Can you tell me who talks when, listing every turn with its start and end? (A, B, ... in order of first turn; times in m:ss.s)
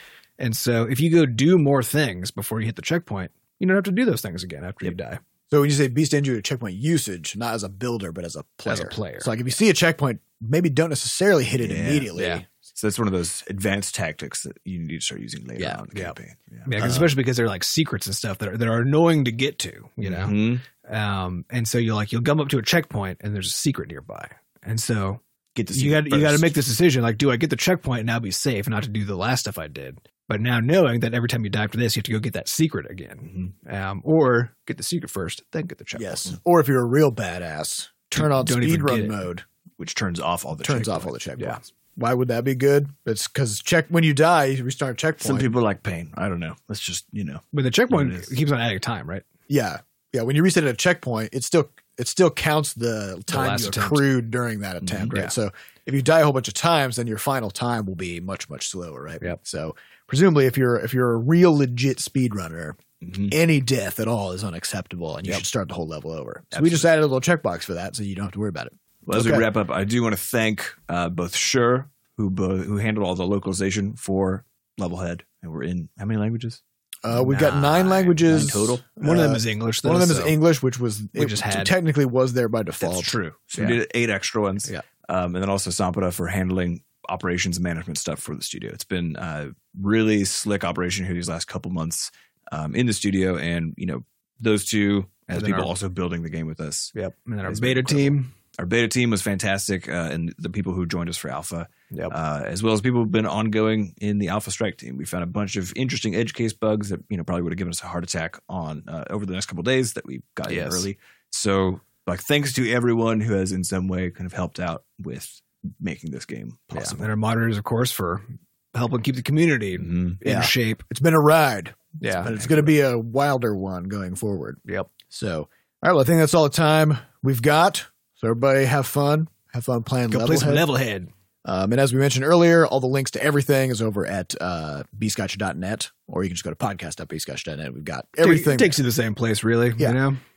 0:00.4-0:05.2 A
0:05.5-0:12.4 B
0:08.6-0:09.3 A
0:11.6-0:12.1 C
0:12.1-0:12.4 A
0:12.7-0:17.1 C
0:15.6-0:25.2 A
0:16.8-0:17.1 B
0:20.0-0:20.6 C
0:25.5-0:26.5 C
0:25.7-0:36.3 A
0:33.2-0:33.5 C
0:35.9-0:39.4 B
0:38.1-0:39.2 A
0:39.8-0:41.1 C
0:40.6-0:45.5 B
0:45.2-0:48.3 C
0:47.5-0:49.2 A
0:49.5-1:02.8 B
0:53.3-0:54.0 A
0:54.8-0:55.1 C
1:03.0-1:03.3 C
1:03.3-1:09.5 B
1:06.5-1:06.9 C
1:09.0-1:16.6 C
1:17.0-1:23.8 B
1:17.1-1:18.3 A
1:18.1-1:18.8 C
1:19.0-1:20.4 A
1:21.1-1:21.7 A
1:22.8-1:36.9 C
1:35.3-1:35.7 A
1:36.9-1:38.3 A
1:37.4-1:57.1 C
1:41.9-1:42.2 A
1:50.5-1:50.8 A
1:56.7-2:00.8 A
1:59.8-2:00.2 C
2:00.2-2:10.7 B
2:02.0-2:02.3 A
2:02.2-2:02.7 C
2:10.1-2:11.1 A
2:11.4-2:18.8 B
2:18.2-2:20.2 A